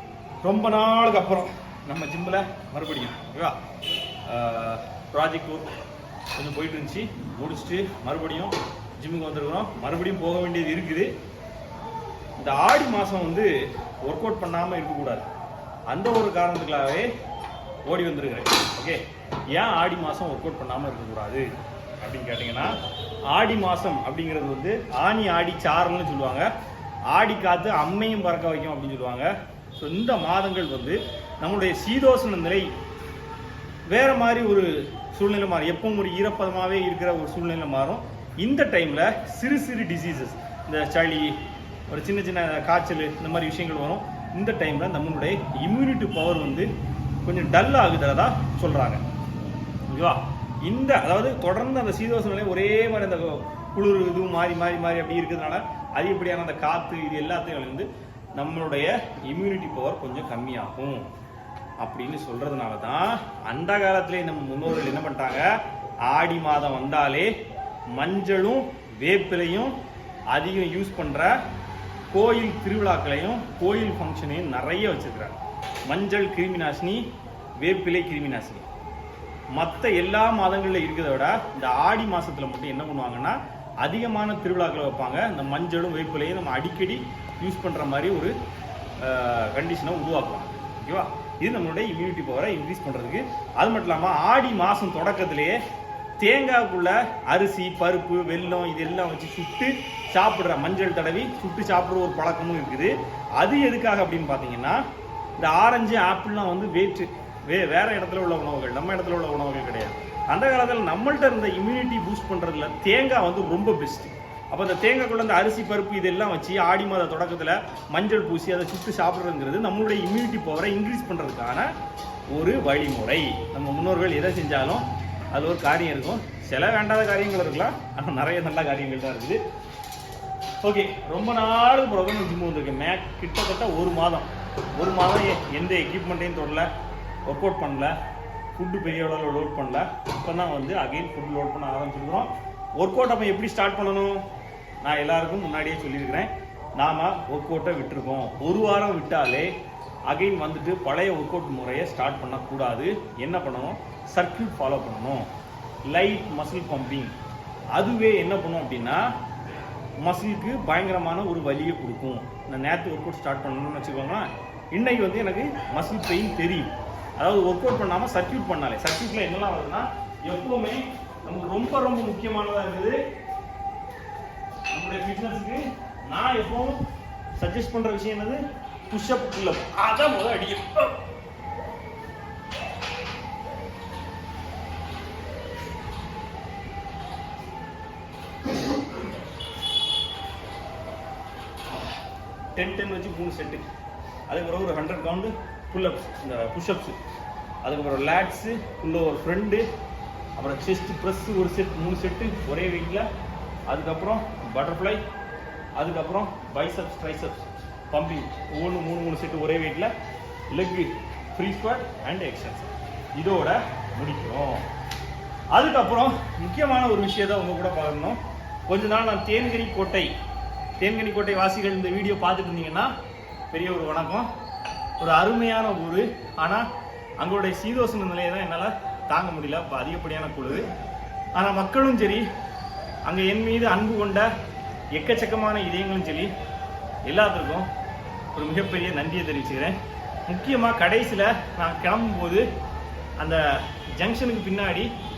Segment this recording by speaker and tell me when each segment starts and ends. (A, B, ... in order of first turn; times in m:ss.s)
0:00.4-0:03.6 A
0:04.2-0:05.7 A
0:06.4-0:11.1 A
0:12.4-0:15.2 A
0:15.9-0:17.1 A
0:17.9-0:21.5 A
0:22.0-0:22.7 A
0:23.3-0:26.5 A
0:27.1-0:32.7 A
0:33.9-0:41.4 A
0:41.9-0:46.7 A
0:47.2-0:49.0 A
0:49.9-1:01.1 A
1:01.8-1:07.3 A
1:07.9-1:09.8 A
1:10.3-1:11.4 A
1:12.1-1:17.0 A
1:17.6-1:18.6 A
1:19.5-1:28.3 A
1:29.0-1:35.6 A
1:36.2-1:44.8 A
1:45.4-2:01.7 A
2:02.3-2:09.4 A
2:10.6-2:16.7 A
2:17.2-2:17.9 A
2:18.6-2:24.2 A
2:24.8-2:29.5 A
2:30.1-2:35.3 A
2:35.8-2:37.1 A
2:37.7-2:39.1 A
2:40.0-2:53.0 A
2:54.7-2:56.8 A
2:57.4-3:01.0 A
3:12.5-3:13.7 A
3:14.3-3:17.0 A
3:17.6-3:19.6 A
3:20.4-3:23.1 A
3:23.7-3:25.0 A
3:25.8-3:29.9 A
3:30.5-3:34.6 A
3:35.5-3:40.1 A
3:40.8-3:42.9 A
3:43.5-3:44.3 A
3:45.0-3:46.6 A
3:47.2-3:50.7 A
3:51.3-3:52.2 A
3:53.0-3:54.3 A
3:54.9-3:56.3 A
3:57.0-3:57.7 A
3:58.3-4:02.4 A
4:03.2-4:04.9 A